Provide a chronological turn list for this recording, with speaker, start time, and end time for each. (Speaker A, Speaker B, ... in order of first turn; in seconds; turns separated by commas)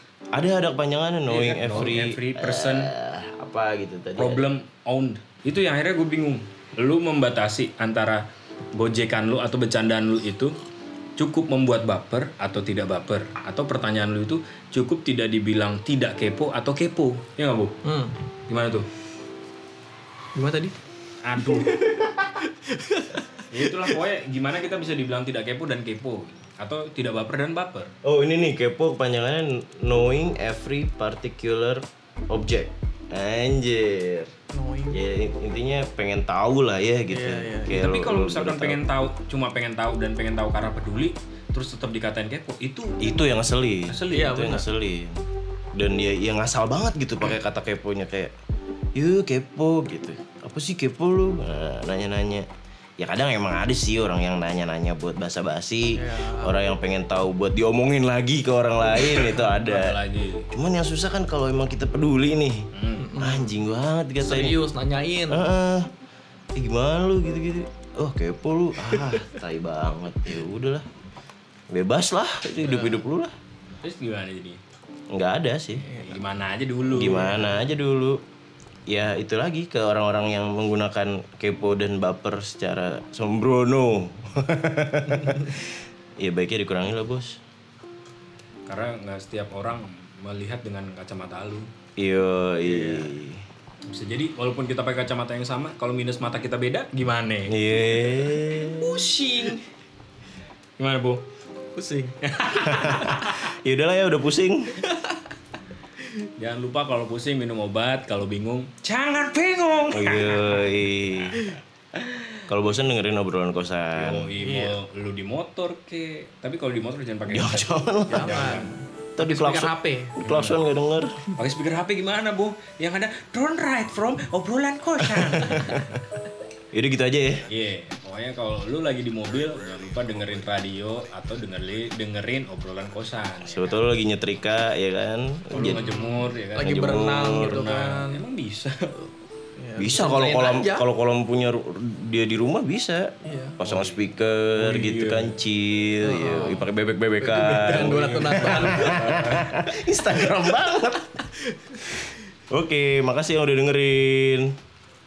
Speaker A: 0.3-4.5, Speaker B: 1.3-2.9, Speaker B: 4.2-10.5, Speaker B: 11.2-17.7, Speaker C: 17.8-18.1, Speaker B: 18.5-18.9, Speaker C: 20.3-20.7, Speaker B: 21.2-21.8, Speaker C: 21.4-23.9, Speaker B: 23.5-27.9, Speaker A: 28.0-34.3, Speaker C: 34.5-35.0, Speaker A: 34.9-38.8, Speaker C: 37.1-37.8, Speaker B: 37.7-43.1, Speaker A: 43.0-45.2, Speaker B: 43.9-44.4, Speaker C: 44.1-44.7, Speaker A: 45.7-48.3, Speaker A: 48.9-52.5, Speaker A: 53.0-60.0, Speaker C: 56.0-56.7, Speaker B: 59.2-60.5, Speaker A: 60.5-64.6, Speaker B: 62.7-63.1, Speaker C: 63.0-63.5, Speaker C: 64.2-65.5, Speaker A: 65.3-65.9, Speaker A: 66.5-70.8, Speaker A: 71.7-73.3, Speaker B: 73.8-74.6, Speaker A: 75.1-75.9, Speaker C: 75.9-76.2, Speaker B: 75.9-77.4, Speaker A: 76.9-78.2, Speaker A: 78.9-87.4, Speaker B: 88.7-91.7, Speaker A: 92.0-93.4, Speaker C: 92.6-93.1, Speaker B: 93.9-99.6, Speaker A: 97.5-99.0, Speaker B: 100.8-101.2, Speaker C: 101.7-102.1, Speaker B: 102.2-103.4, Speaker A: 102.5-104.8, Speaker C: 102.8-103.0, Speaker C: 104.9-105.2, Speaker B: 106.4-110.7, Speaker A: 109.9-111.5, Speaker A: 112.5-114.3, Speaker B: 114.0-118.7, Speaker C: 114.4-114.8, Speaker A: 117.3-118.6, Speaker C: 118.1-120.2, Speaker A: 119.2-119.7, Speaker B: 120.2-120.6, Speaker A: 120.2-121.2, Speaker B: 121.3-126.0, Speaker A: 125.2-125.9, Speaker A: 126.7-127.5, Speaker B: 127.5-133.8, Speaker A: 133.4-135.8, Speaker B: 135.5-136.8, Speaker C: 135.6-138.2, Speaker A: 136.6-137.7, Speaker B: 137.4-138.9, Speaker C: 139.6-140.8, Speaker A: 139.8-151.2, Speaker C: 143.2-143.6, Speaker B: 143.6-144.0, Speaker B: 144.5-145.3, Speaker C: 146.0-146.7, Speaker C: 147.2-149.2, Speaker B: 147.7-149.5, Speaker A: 152.5-154.6